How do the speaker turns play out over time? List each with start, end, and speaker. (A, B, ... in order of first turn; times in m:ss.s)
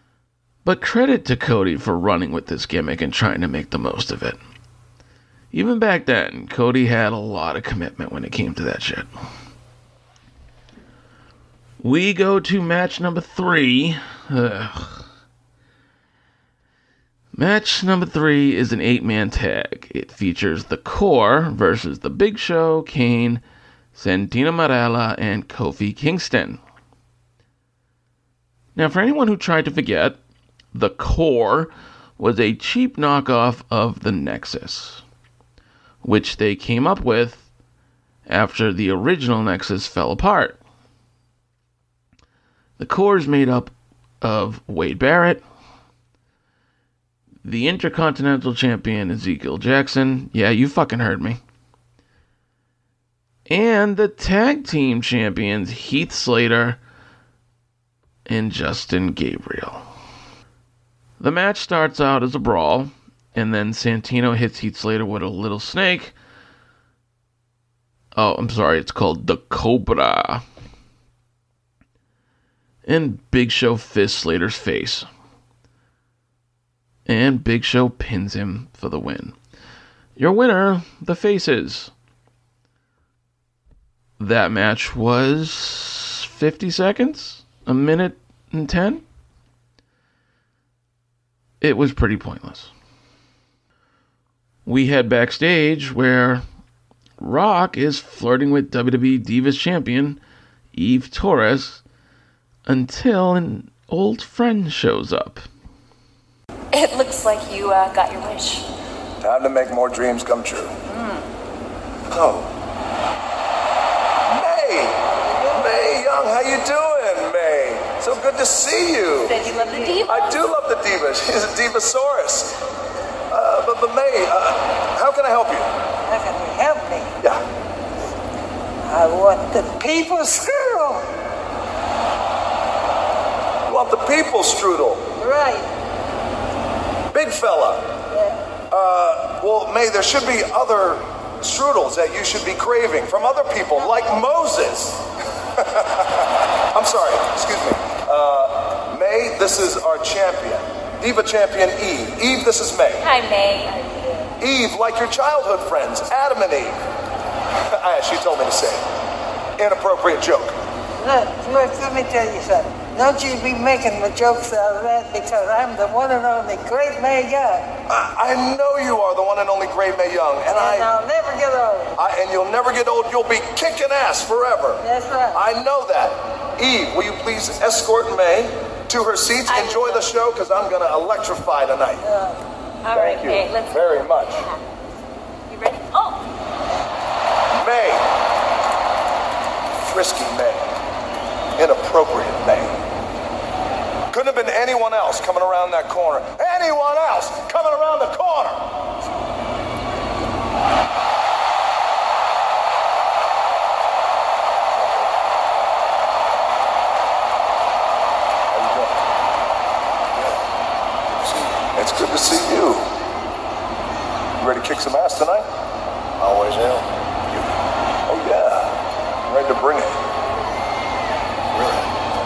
0:00.6-0:04.4 A
0:05.5-0:09.1 A
0:11.8-0:15.0 A
0:17.3-0:23.4 A
0:23.9-0:26.6 A
0:28.7-0:30.2 A
0:30.7-0:35.0 A
0:36.0-0:37.4 A
0:38.3-0:40.6 A
0:42.8-0:45.4 A
0:47.4-0:51.4 A
0:53.5-0:56.8 A
0:58.3-0:59.8 A
1:01.2-1:06.1 A
1:08.1-1:10.4 A
1:12.8-1:15.1 A
1:17.1-1:19.4 A
1:20.2-1:21.9 A
1:24.2-1:29.0 A
1:31.6-1:32.7 A
1:34.6-1:36.4 A
1:37.2-1:40.2 A
1:40.7-1:41.8 A
1:42.6-1:45.4 A
1:46.7-1:48.6 B
1:49.2-1:50.7 C
1:52.1-1:52.5 C
1:54.2-2:02.6 C
1:59.2-2:00.4 B
1:59.5-2:00.0 D
2:03.3-2:05.7 C
2:06.0-2:07.1 D
2:08.8-2:11.0 D
2:13.7-2:15.1 C
2:15.2-2:15.7 D
2:17.1-2:17.9 C
2:18.1-2:18.4 D
2:18.7-2:25.0 C
2:25.6-2:33.0 C
2:33.0-2:34.3 B
2:34.4-2:36.8 C
2:37.7-2:38.8 C
2:39.6-2:40.6 C
2:41.0-2:47.7 D
2:47.9-2:50.9 C
2:50.5-2:51.9 D
2:52.0-3:02.0 C
2:54.8-2:55.4 D
2:59.5-3:00.0 B
3:02.0-3:02.3 D
3:02.8-3:04.6 B
3:02.9-3:04.4 C
3:05.5-3:06.2 B
3:07.5-3:08.1 C
3:09.8-3:10.7 C
3:11.6-3:12.8 C
3:14.1-3:18.7 C
3:24.7-3:25.1 C
3:28.5-3:29.1 C
3:30.1-3:30.4 C
3:31.2-3:32.9 C
3:34.4-3:35.5 C
3:36.2-3:37.5 C
3:38.1-3:40.0 C
3:41.5-3:41.8 C